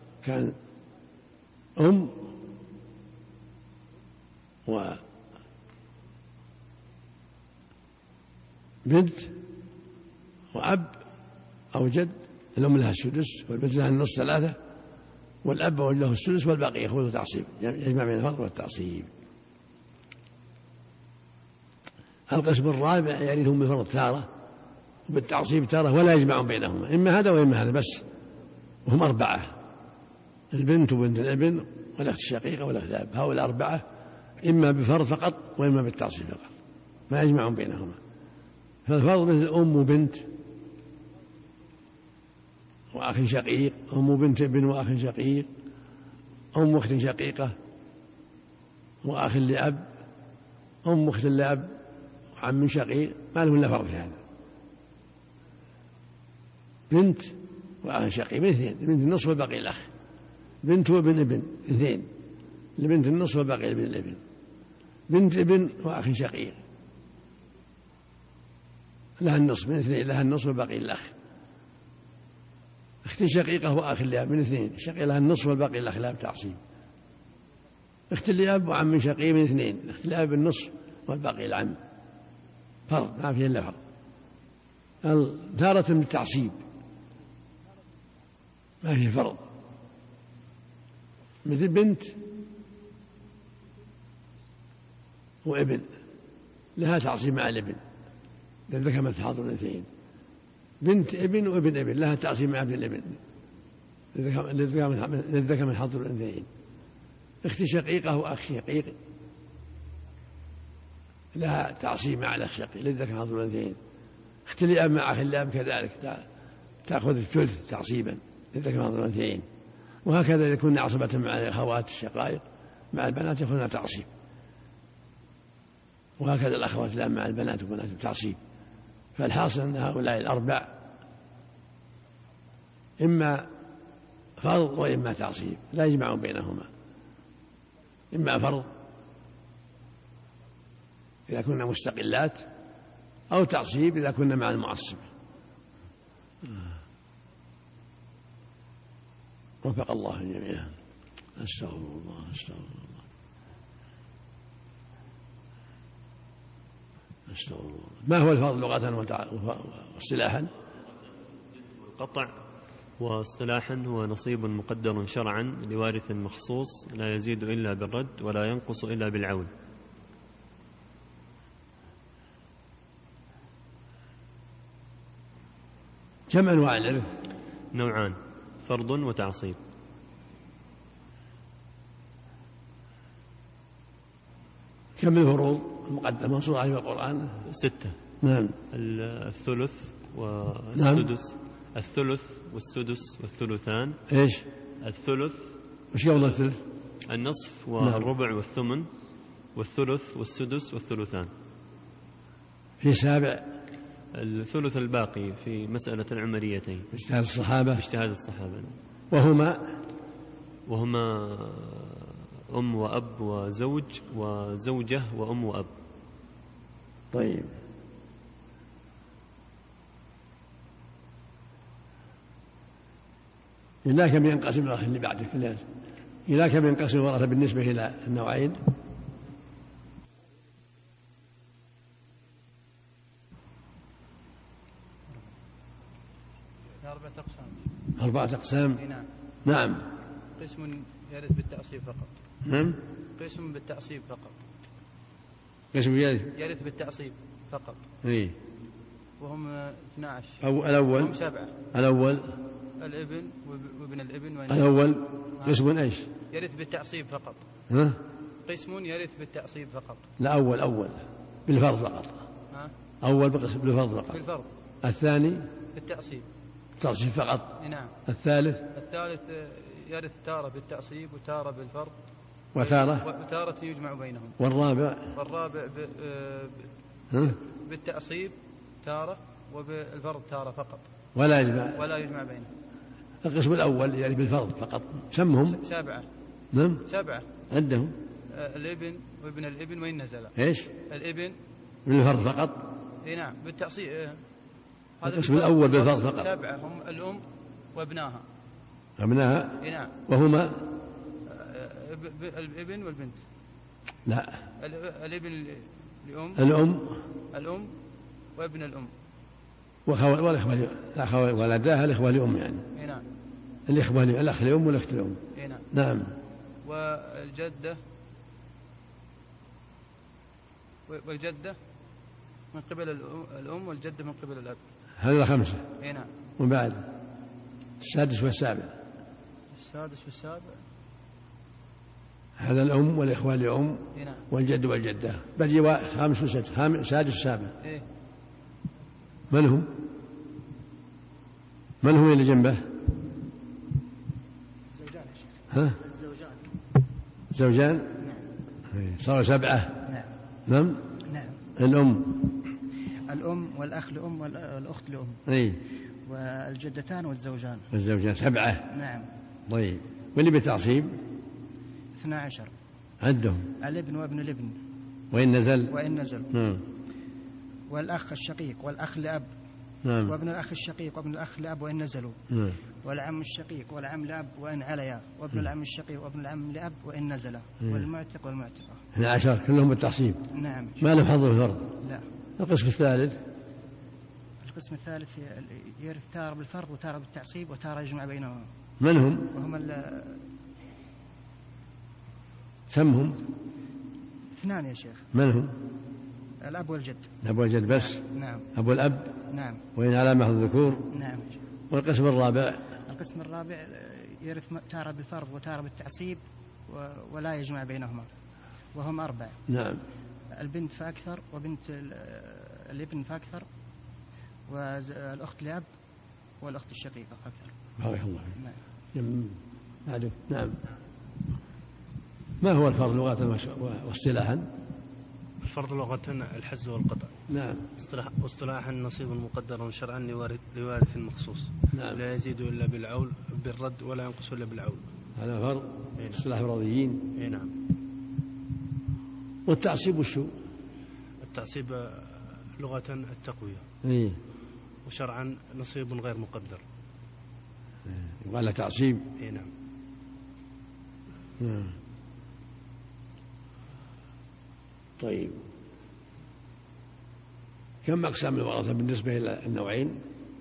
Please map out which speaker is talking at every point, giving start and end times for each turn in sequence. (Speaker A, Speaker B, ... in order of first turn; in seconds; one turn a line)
Speaker A: 0.2-0.5
Speaker A: 1.8-2.3
Speaker A: 4.7-5.0
Speaker A: 8.8-9.4
Speaker A: 10.5-11.1
Speaker A: 11.7-14.6
Speaker A: 15.4-19.1
Speaker A: 22.3-24.3
Speaker A: 25.1-28.1
Speaker A: 28.9-29.6
Speaker A: 30.5-33.8
Speaker A: 34.4-36.5
Speaker A: 37.1-38.0
Speaker A: 38.9-40.3
Speaker A: 42.9-45.5
Speaker A: 46.5-47.5
Speaker A: 49.0-49.9
Speaker A: 50.8-51.8
Speaker A: 52.4-54.2
Speaker A: 56.9-59.9
Speaker A: 60.6-62.1
Speaker A: 62.8-64.2
Speaker A: 65.1-66.6
Speaker A: 69.2-71.1
Speaker A: 73.0-76.6
Speaker A: 78.1-81.8
Speaker A: 82.9-83.8
Speaker A: 85.0-86.6
Speaker A: 88.8-89.5
Speaker A: 91.4-92.2
Speaker A: 95.4-95.9
Speaker A: 96.8-97.8
Speaker A: 98.7-99.9
Speaker A: 100.8-103.2
Speaker A: 104.1-106.5
Speaker A: 107.4-109.0
Speaker A: 111.3-113.8
Speaker A: 114.5-116.2
Speaker A: 116.8-119.5
Speaker A: 120.0-124.1
Speaker A: 126.2-128.4
Speaker A: 129.2-130.8
Speaker A: 133.0-133.5
Speaker A: 134.4-136.7
Speaker A: 138.1-138.7
Speaker A: 141.3-142.4
Speaker A: 143.3-145.1
Speaker A: 149.6-150.8
Speaker A: 151.4-153.0
Speaker A: 157.3-160.5
Speaker B: 161.6-162.3
Speaker B: 163.0-169.5
Speaker A: 176.3-177.1
Speaker B: 177.7-179.6
Speaker A: 185.0-187.4
Speaker B: 187.5-187.9
Speaker A: 188.2-188.6
Speaker B: 188.7-194.0
Speaker A: 190.7-191.1
Speaker A: 194.1-194.5
Speaker B: 194.8-195.5
Speaker A: 195.9-196.6
Speaker B: 197.1-198.9
Speaker A: 197.8-198.1
Speaker B: 199.5-201.3
Speaker A: 202.8-203.5
Speaker B: 204.2-206.9
Speaker A: 206.9-207.8
Speaker B: 207.7-208.7
Speaker A: 209.1-209.8
Speaker B: 210.7-215.7
Speaker A: 217.1-217.6
Speaker A: 223.8-225.6
Speaker A: 226.3-228.6
Speaker C: 236.8-237.6
Speaker A: 238.0-238.8
Speaker C: 238.8-239.0
Speaker A: 239.4-239.8
Speaker C: 240.4-242.1
Speaker A: 242.4-242.8
Speaker C: 243.2-244.4
Speaker A: 245.7-246.3
Speaker C: 246.3-247.8
Speaker A: 248.0-248.4
Speaker C: 249.2-251.5
Speaker A: 250.4-251.2
Speaker A: 251.7-252.4
Speaker C: 252.8-254.7
Speaker A: 254.5-256.1
Speaker C: 256.3-257.4
Speaker A: 257.7-258.0
Speaker C: 258.4-260.0
Speaker A: 260.2-262.2
Speaker A: 263.0-264.2
Speaker C: 264.1-264.5
Speaker A: 264.8-265.4
Speaker C: 265.7-266.2
Speaker A: 266.8-267.5
Speaker C: 267.6-267.9
Speaker A: 268.1-268.6
Speaker C: 268.7-272.0
Speaker A: 272.5-273.1
Speaker C: 272.6-274.4
Speaker A: 274.4-275.1
Speaker C: 275.1-276.7
Speaker A: 277.1-277.4
Speaker C: 277.4-280.9
Speaker A: 281.1-281.8
Speaker C: 281.7-282.5
Speaker A: 283.2-285.6
Speaker C: 285.4-286.1
Speaker A: 286.5-286.8
Speaker C: 286.9-287.2
Speaker A: 287.5-287.9
Speaker C: 288.3-290.3
Speaker A: 290.4-290.7
Speaker C: 290.9-291.4
Speaker A: 291.9-292.6
Speaker C: 293.0-294.2
Speaker C: 295.0-297.2
Speaker A: 295.0-296.3
Speaker C: 297.7-298.2
Speaker A: 299.0-299.6
Speaker C: 299.6-299.9
Speaker A: 300.1-300.7
Speaker C: 301.3-303.2
Speaker A: 304.1-304.4
Speaker C: 304.6-306.4
Speaker A: 306.4-307.0
Speaker C: 307.3-307.7
Speaker C: 308.4-308.9
Speaker A: 309.9-312.6
Speaker C: 312.7-313.0
Speaker A: 313.7-315.2
Speaker C: 315.4-315.6
Speaker A: 315.7-316.1
Speaker C: 316.6-317.8
Speaker C: 320.9-321.6
Speaker C: 322.5-324.6
Speaker A: 325.0-325.6
Speaker C: 325.8-326.1
Speaker A: 326.4-326.8
Speaker A: 327.8-328.7
Speaker C: 329.5-330.5
Speaker A: 332.4-337.5
Speaker C: 333.9-334.2
Speaker A: 339.3-339.7
Speaker A: 341.8-342.7
Speaker D: 344.8-345.3
Speaker A: 345.5-345.8
Speaker D: 345.8-346.4
Speaker A: 347.3-347.9
Speaker A: 348.7-349.8
Speaker D: 349.8-350.1
Speaker A: 350.5-350.9
Speaker D: 351.1-351.4
Speaker A: 351.6-352.3
Speaker D: 353.1-355.2
Speaker A: 355.3-355.6
Speaker D: 356.1-357.7
Speaker A: 357.7-358.7
Speaker D: 358.7-359.1
Speaker A: 359.5-361.0
Speaker D: 361.9-362.5
Speaker A: 363.0-363.5
Speaker D: 363.6-364.6
Speaker A: 365.1-365.7
Speaker D: 365.7-366.3
Speaker A: 366.3-366.6
Speaker D: 367.7-369.3
Speaker A: 369.9-370.1
Speaker D: 370.0-372.2
Speaker A: 372.3-372.6
Speaker D: 372.8-378.8
Speaker A: 378.9-380.2
Speaker D: 380.3-381.0
Speaker A: 380.8-381.7
Speaker D: 381.8-382.0
Speaker A: 382.4-383.2
Speaker D: 384.4-388.5
Speaker A: 388.8-389.3
Speaker D: 389.3-390.2
Speaker A: 392.7-393.2
Speaker D: 394.3-395.1
Speaker A: 395.1-395.6
Speaker D: 396.4-397.1
Speaker A: 397.2-398.0
Speaker D: 397.7-398.5
Speaker A: 398.5-399.2
Speaker D: 399.3-399.6
Speaker A: 399.8-400.9
Speaker D: 400.9-401.4
Speaker A: 401.7-402.7
Speaker D: 402.9-408.1
Speaker D: 408.7-409.4
Speaker A: 409.5-409.8
Speaker D: 410.3-413.4
Speaker D: 414.5-415.7
Speaker D: 416.4-417.5
Speaker A: 417.8-418.3
Speaker A: 418.9-420.6
Speaker A: 422.4-424.5
Speaker E: 425.4-427.1
Speaker A: 427.3-427.6
Speaker E: 427.8-434.8
Speaker A: 431.7-432.0
Speaker A: 435.1-437.0
Speaker E: 436.0-436.2
Speaker E: 437.1-437.5
Speaker A: 439.4-440.3
Speaker E: 441.2-442.1
Speaker E: 442.6-443.6
Speaker A: 443.8-444.2
Speaker E: 444.9-446.6
Speaker A: 447.9-449.1
Speaker E: 449.2-449.5
Speaker A: 451.4-451.8
Speaker A: 455.0-455.4
Speaker A: 457.8-460.0